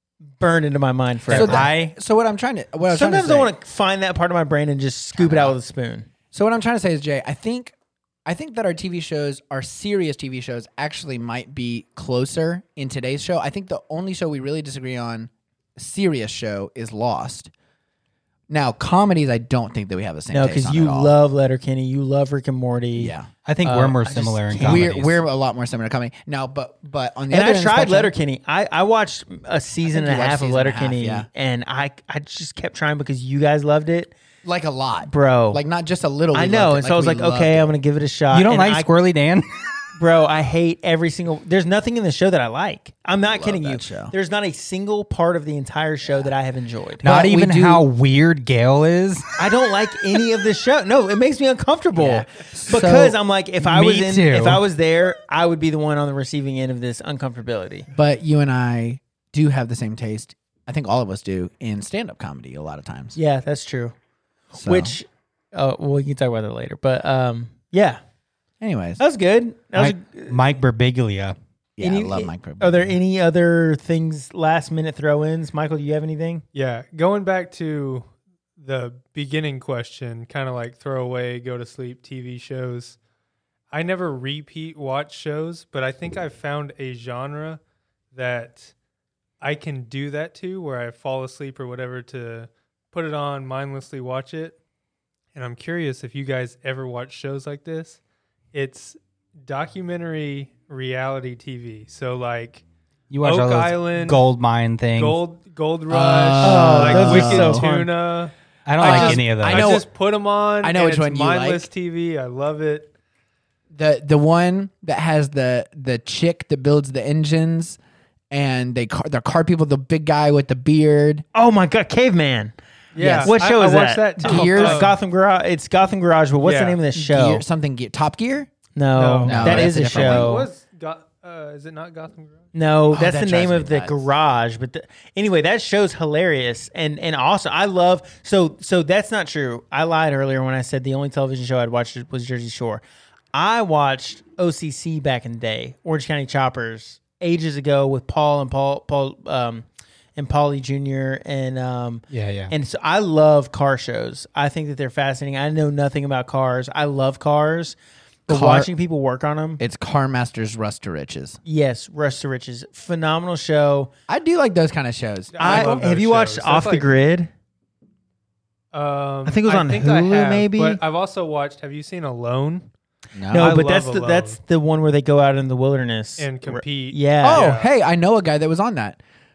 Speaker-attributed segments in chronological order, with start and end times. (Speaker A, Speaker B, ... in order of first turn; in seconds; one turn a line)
Speaker A: 0.4-1.9
Speaker B: 1.3-1.7
Speaker C: 1.3-3.5
Speaker A: 2.9-6.1
Speaker C: 5.2-5.5
Speaker C: 6.3-17.5
Speaker C: 18.5-21.1
Speaker A: 20.3-24.9
Speaker C: 22.9-23.3
Speaker B: 23.4-25.2
Speaker C: 24.6-28.1
Speaker A: 27.3-34.1
Speaker C: 29.9-31.3
Speaker C: 34.4-37.7
Speaker A: 35.1-35.6
Speaker A: 36.3-38.9
Speaker B: 38.3-39.5
Speaker A: 40.0-47.0
Speaker C: 43.3-44.1
Speaker C: 47.0-47.8
Speaker B: 47.0-49.4
Speaker A: 49.4-57.9
Speaker C: 52.0-53.2
Speaker B: 53.6-54.6
Speaker C: 57.9-63.2
Speaker A: 63.1-63.9
Speaker A: 64.5-68.0
Speaker C: 64.5-65.0
Speaker C: 68.6-69.0
Speaker A: 69.0-70.4
Speaker B: 69.8-71.3
Speaker C: 71.8-72.9
Speaker A: 71.8-76.4
Speaker D: 76.5-83.0
Speaker D: 83.7-87.6
Speaker D: 88.1-88.7
Speaker D: 89.4-94.6
Speaker D: 95.3-98.0
Speaker D: 98.5-102.6
Speaker B: 103.1-105.2
Speaker D: 103.2-104.2
Speaker D: 104.9-112.9
Speaker C: 105.9-107.6
Speaker A: 106.4-107.9
Speaker B: 108.7-109.8
Speaker C: 108.8-109.9
Speaker C: 110.6-111.7
Speaker C: 113.7-117.8
Speaker C: 118.3-121.2
Speaker A: 121.3-122.5
Speaker D: 122.9-125.0
Speaker C: 123.0-123.3
Speaker A: 123.1-127.4
Speaker C: 124.2-125.0
Speaker D: 126.4-126.8
Speaker C: 126.9-128.5
Speaker A: 128.8-130.5
Speaker D: 128.9-132.5
Speaker C: 129.2-130.4
Speaker A: 132.5-142.8
Speaker C: 132.9-134.1
Speaker A: 143.3-149.6
Speaker A: 150.2-159.6
Speaker B: 152.1-152.5
Speaker C: 158.3-158.7
Speaker C: 159.6-161.4
Speaker A: 161.4-163.9
Speaker C: 164.1-165.8
Speaker D: 165.3-167.0
Speaker A: 165.4-167.3
Speaker D: 168.7-172.7
Speaker A: 169.2-170.8
Speaker C: 173.1-173.6
Speaker A: 173.3-177.4
Speaker D: 173.3-174.4
Speaker D: 176.2-177.7
Speaker C: 177.2-179.0